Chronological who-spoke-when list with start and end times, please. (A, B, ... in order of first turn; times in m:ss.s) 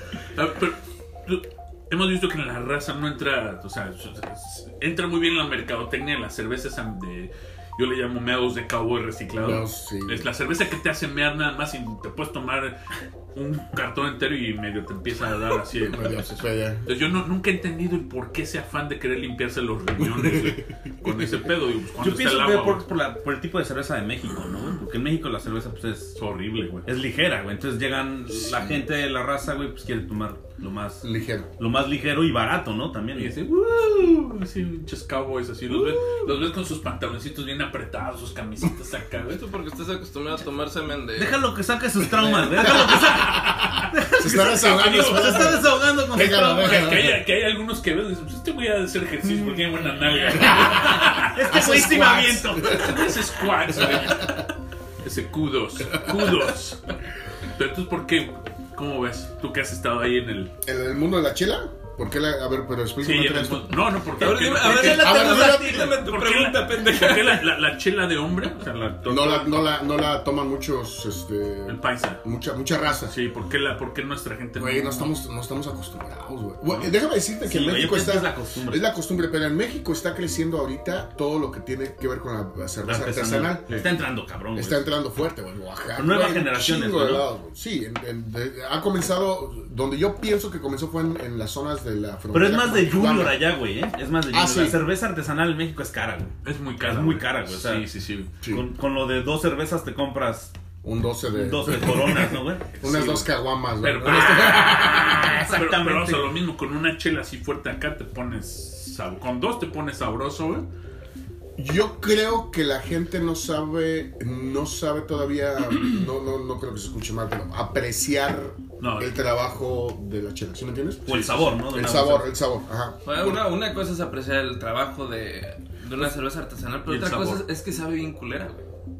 0:00.2-0:22.8 A
0:09.3-0:10.3 B
0:15.8-0:16.9 B
0:20.0-0:21.2 B
0:22.0-0:26.2 C
0:26.2-0:26.9 A
0:26.8-0:31.0 C
0:31.0-0:31.5 B
0:31.6-0:33.3 C
0:33.1-0:39.4 A
0:39.3-0:41.4 D
0:41.2-0:47.1 C
0:42.2-0:47.2 B
0:44.3-0:45.6 A
0:46.6-0:51.4 A
0:49.3-0:49.6 C
0:50.3-0:52.9 C
0:50.4-0:53.2 B
0:52.6-0:54.5 A
0:53.7-0:54.4 B
0:55.0-0:56.9 A
0:57.5-1:00.5 A
1:00.6-1:03.9 B
1:03.0-1:09.6 A
1:04.2-1:07.5 D
1:04.3-1:06.0 C
1:04.9-1:06.0 B
1:09.0-1:13.1 B
1:11.7-1:12.2 A
1:13.1-1:15.1 A
1:14.6-1:23.8 B
1:17.4-1:18.9 C
1:22.8-1:24.9 C
1:24.5-1:33.4 B
1:26.0-1:27.3 C
1:32.3-1:37.8 C
1:34.3-1:34.8 B
1:36.4-1:38.3 A
1:38.4-1:40.5 C
1:40.8-1:45.4 B
1:41.3-1:43.2 C
1:43.8-1:50.6 A
1:44.3-1:46.3 C
1:51.6-2:03.5 B
1:58.8-1:59.1 A
2:01.1-2:02.4 C
2:01.1-2:01.5 A
2:03.0-2:08.6 D
2:06.8-2:07.4 A